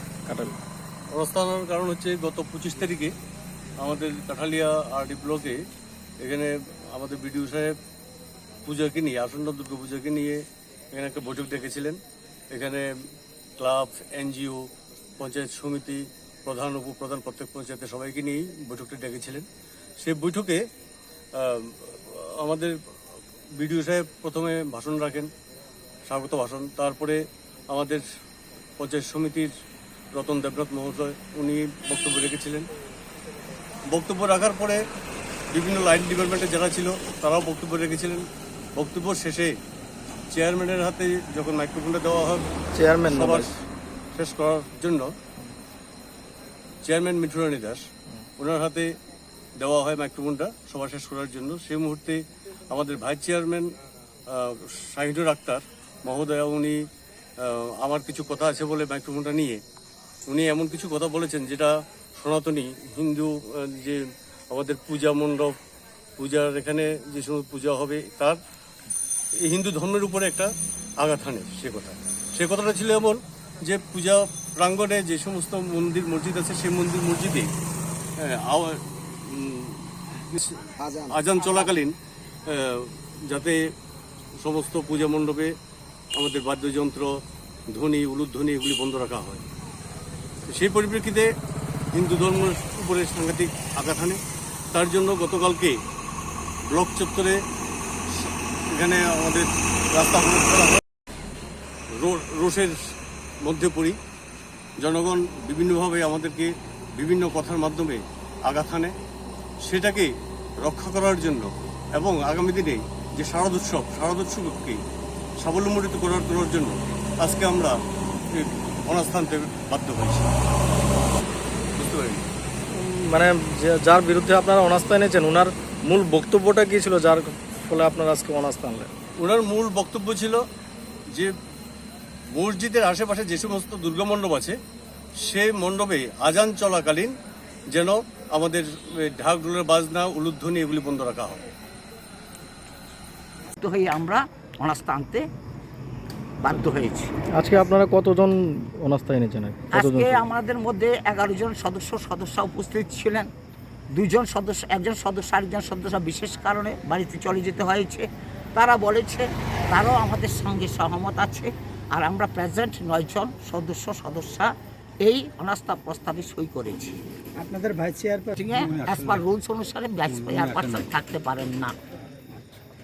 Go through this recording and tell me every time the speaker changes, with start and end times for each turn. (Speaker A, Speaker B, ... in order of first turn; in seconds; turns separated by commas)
Speaker A: 0.3-0.5, Speaker B: 1.1-3.1, Speaker B: 3.8-5.6, Speaker B: 6.2-7.8, Speaker B: 8.7-12.0, Speaker B: 12.5-12.9, Speaker B: 13.6-14.6, Speaker B: 15.2-19.5, Speaker B: 20.0-20.6, Speaker B: 21.3-22.8, Speaker B: 23.6-25.3, Speaker B: 26.1-28.0, Speaker B: 28.8-29.5, Speaker B: 30.1-32.7, Speaker B: 33.9-34.8, Speaker B: 35.5-38.2, Speaker B: 38.8-39.5, Speaker B: 40.3-42.5, Speaker A: 42.7-43.5, Speaker B: 43.0-43.6, Speaker B: 44.1-45.2, Speaker B: 46.8-47.9, Speaker B: 48.4-48.9, Speaker B: 49.6-53.7, Speaker B: 54.3-56.8, Speaker B: 57.4-59.6, Speaker B: 60.3-65.5, Speaker B: 66.2-68.4, Speaker B: 69.4-77.5, Speaker B: 78.2-81.9, Speaker C: 80.8-81.2, Speaker B: 82.5-83.7, Speaker B: 84.4-85.5, Speaker B: 86.2-87.2, Speaker B: 87.7-89.4, Speaker B: 90.5-91.3, Speaker B: 91.9-94.2, Speaker B: 94.7-95.8, Speaker B: 96.7-97.4, Speaker B: 98.1-100.8, Speaker B: 101.9-102.8, Speaker B: 103.4-104.0, Speaker B: 104.8-108.9, Speaker B: 109.6-114.8, Speaker B: 115.4-117.7, Speaker B: 118.3-120.3, Speaker B: 121.8-122.2, Speaker A: 122.7-128.9, Speaker B: 129.2-130.4, Speaker B: 132.3-134.6, Speaker B: 135.2-137.1, Speaker B: 137.7-141.4, Speaker D: 143.6-145.2, Speaker D: 146.4-147.1, Speaker A: 147.4-150.2, Speaker D: 149.7-153.3, Speaker D: 153.9-164.5, Speaker D: 165.0-167.0, Speaker C: 167.4-169.2, Speaker D: 168.4-171.8, Speaker C: 170.2-170.8